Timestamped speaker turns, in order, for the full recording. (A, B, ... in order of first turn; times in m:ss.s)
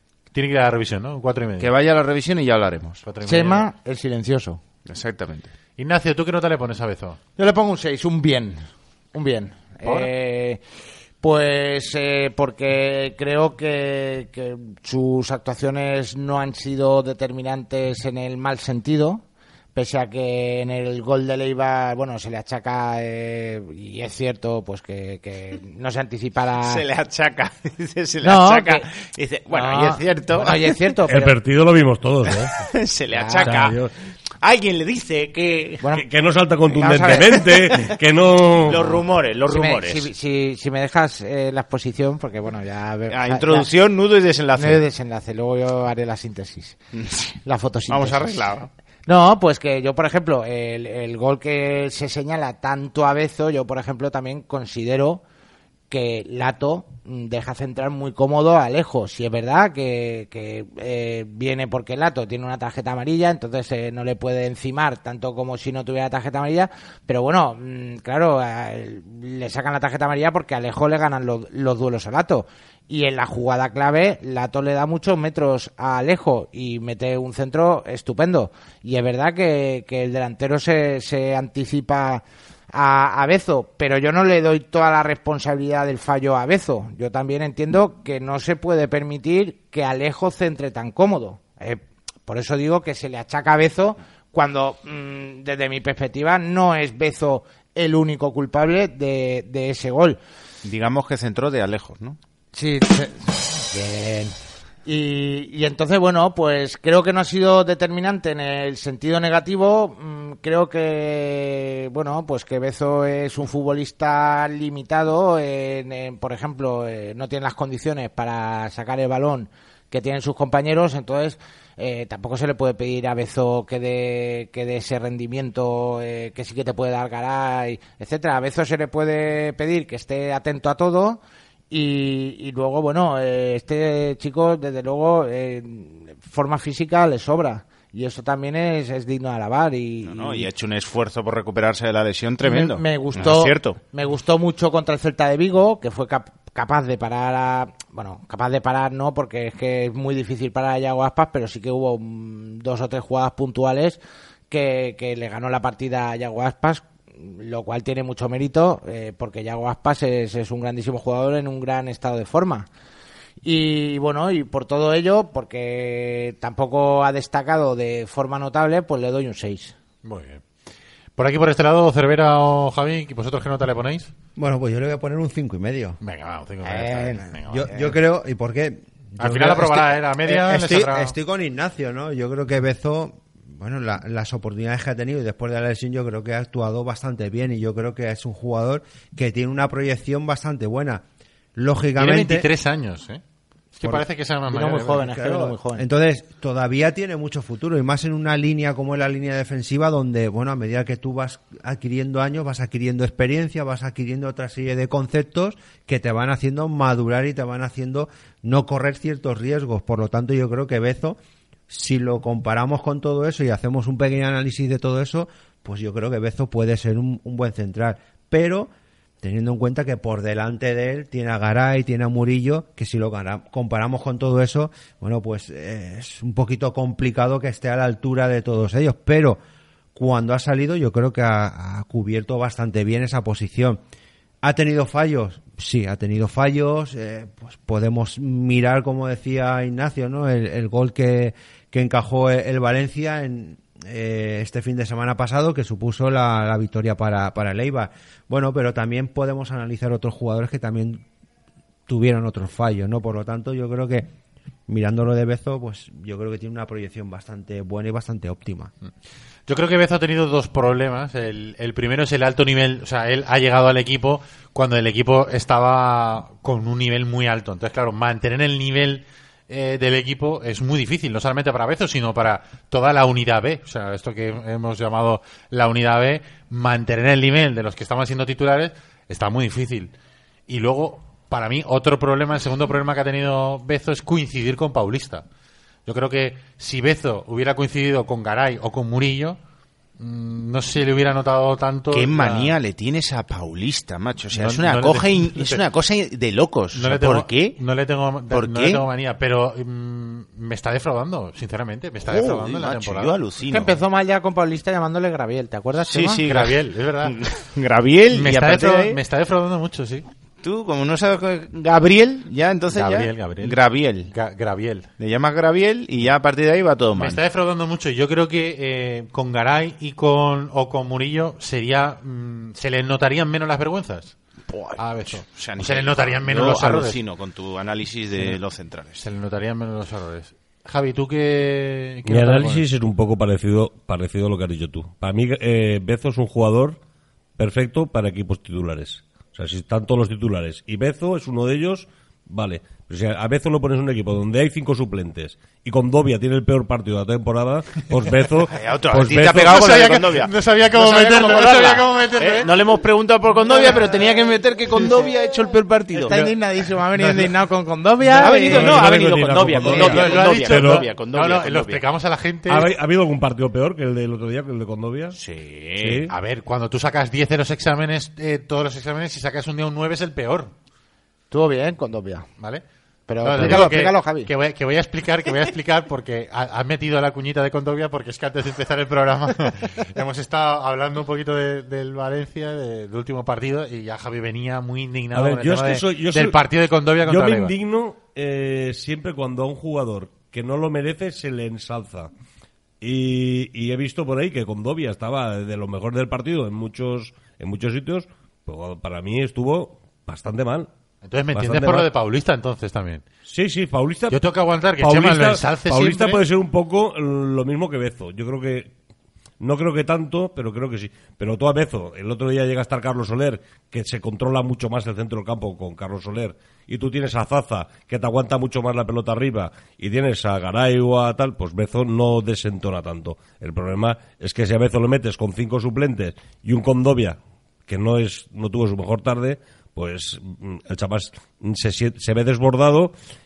0:00.3-0:01.7 A
0:01.6-0:03.0 B
0:03.0-0:03.7 A
0:03.2-0:04.6 C
0:04.9-0:05.5 B
0:05.8-0:07.2 A
0:07.4-0:08.6 C
0:09.1-0:10.6 C
0:09.8-0:10.1 A
0:11.2-0:19.2 C
0:19.7-0:26.8 C
0:26.6-0:30.8 B
0:28.2-0:28.9 C
0:29.5-0:31.4 C
0:31.1-0:32.5 D
0:32.5-0:33.8 B
0:33.1-0:33.6 C
0:33.4-0:33.8 D
0:34.4-0:35.8 B
0:35.8-0:36.1 C
0:35.9-0:38.9 D
0:36.7-0:37.8 C
0:38.6-0:40.1 B
0:38.9-0:43.7 C
0:43.1-0:44.8 B
0:44.6-0:46.8 C
0:47.0-0:47.3 B
0:47.4-0:48.4 C
0:47.9-0:48.7 B
0:49.1-0:55.2 C
0:55.9-1:40.2 C
1:40.6-1:42.2 B
1:42.5-1:44.3 C
1:44.9-2:11.2 C
2:11.7-2:20.5 C
2:20.0-2:23.8 B
2:22.4-2:34.0 C
2:34.5-2:42.7 C
2:43.4-2:49.7 C
2:50.0-2:50.4 A
2:51.2-2:54.1 A
2:54.4-2:56.0 E
2:56.0-2:57.7 A
2:56.6-2:57.8 C
2:57.5-3:11.0 E
2:59.2-3:01.1 A
3:11.6-3:12.5 E
3:12.0-3:13.2 A
3:13.7-3:15.1 A
3:14.5-3:15.8 C
3:15.0-3:31.2 E
3:31.7-3:38.7 E
3:39.2-3:49.4 E
3:49.9-3:53.8 E
3:54.4-4:11.0 E
4:11.9-4:14.1 E
4:14.7-4:18.7 E
4:19.5-4:39.9 A
4:40.5-4:45.2 A
4:45.9-4:49.4 A
4:50.0-4:52.6 A
4:51.9-4:57.6 B
4:54.3-4:55.6 A
4:56.7-5:03.1 A
4:58.3-4:58.8 B
5:02.0-5:03.8 B
5:03.5-5:06.2 C
5:05.8-5:09.0 B
5:06.2-5:07.2 A
5:08.1-5:10.1 A
5:10.4-5:14.1 B
5:12.7-5:14.9 A
5:15.0-5:17.2 B
5:16.9-5:24.1 A
5:24.5-5:29.0 B
5:24.8-5:27.0 A
5:29.0-5:32.6 A
5:32.1-5:36.8 D
5:37.4-5:49.7 D
5:48.5-5:56.3 B
5:49.4-5:52.5 A
5:56.0-5:58.9 C
5:58.1-6:01.8 B
5:58.2-6:00.9 D
5:59.6-6:02.7 A
5:59.6-6:00.2 C
6:02.5-6:05.2 D
6:05.1-6:06.1 B
6:05.8-6:06.1 D
6:06.1-6:10.5 A
6:11.3-6:12.3 C
6:13.1-6:14.3 C
6:13.2-6:27.5 A
6:13.4-6:13.7 B
6:25.1-6:26.4 D
6:27.0-6:32.1 D
6:32.8-6:40.7 D
6:41.0-6:43.0 A
6:41.3-6:41.9 D
6:43.3-6:44.2 D
6:44.1-6:46.2 A
6:44.8-6:48.7 D
6:49.4-7:12.9 D